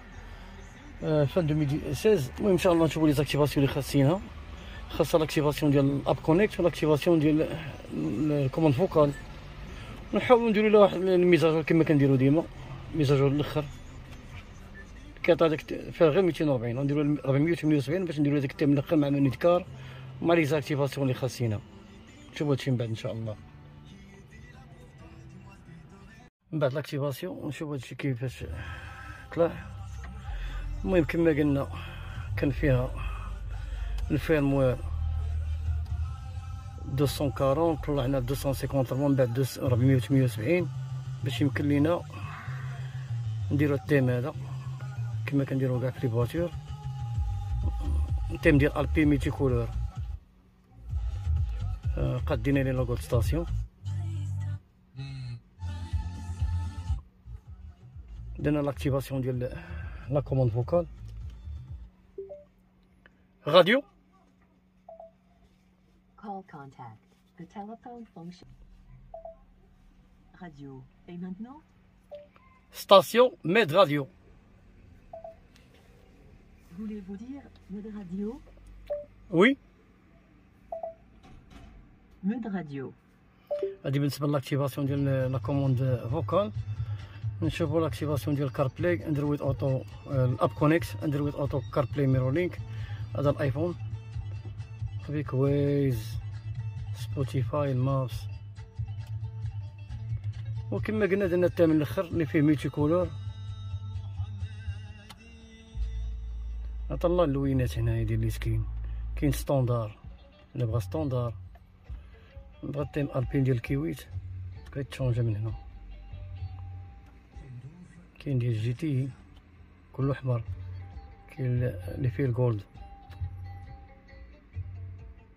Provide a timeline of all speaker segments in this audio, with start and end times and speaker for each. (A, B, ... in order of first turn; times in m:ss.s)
0:01.0-0:04.3 A
0:04.9-0:09.2 A
0:10.1-0:13.7 A
0:15.2-0:19.7 A
0:20.2-0:21.6 A
0:22.3-0:23.4 A
0:26.5-0:29.7 A
0:30.8-0:33.3 A
0:34.1-0:34.8 A
0:36.8-0:42.1 A
0:43.5-0:44.4 A
0:45.2-0:46.6 A
0:48.3-0:49.8 A
0:51.9-0:53.5 A
0:58.4-1:00.9 A
1:03.4-1:03.8 A
1:06.2-1:08.5 B
1:10.3-1:11.6 B
1:12.7-1:14.1 A
1:16.7-1:18.4 B
1:19.3-1:19.6 A
1:22.2-1:23.0 B
1:23.8-1:26.6 A
1:27.4-1:32.6 A
1:33.1-1:33.8 A
1:35.0-1:36.2 A
1:36.9-1:38.3 A
1:40.7-1:43.2 A
1:46.9-1:50.0 A
1:50.5-1:51.4 A
1:52.6-1:54.1 A
1:54.7-1:55.6 A
1:58.2-1:59.2 A
1:59.9-2:00.5 A
2:01.3-2:02.7 A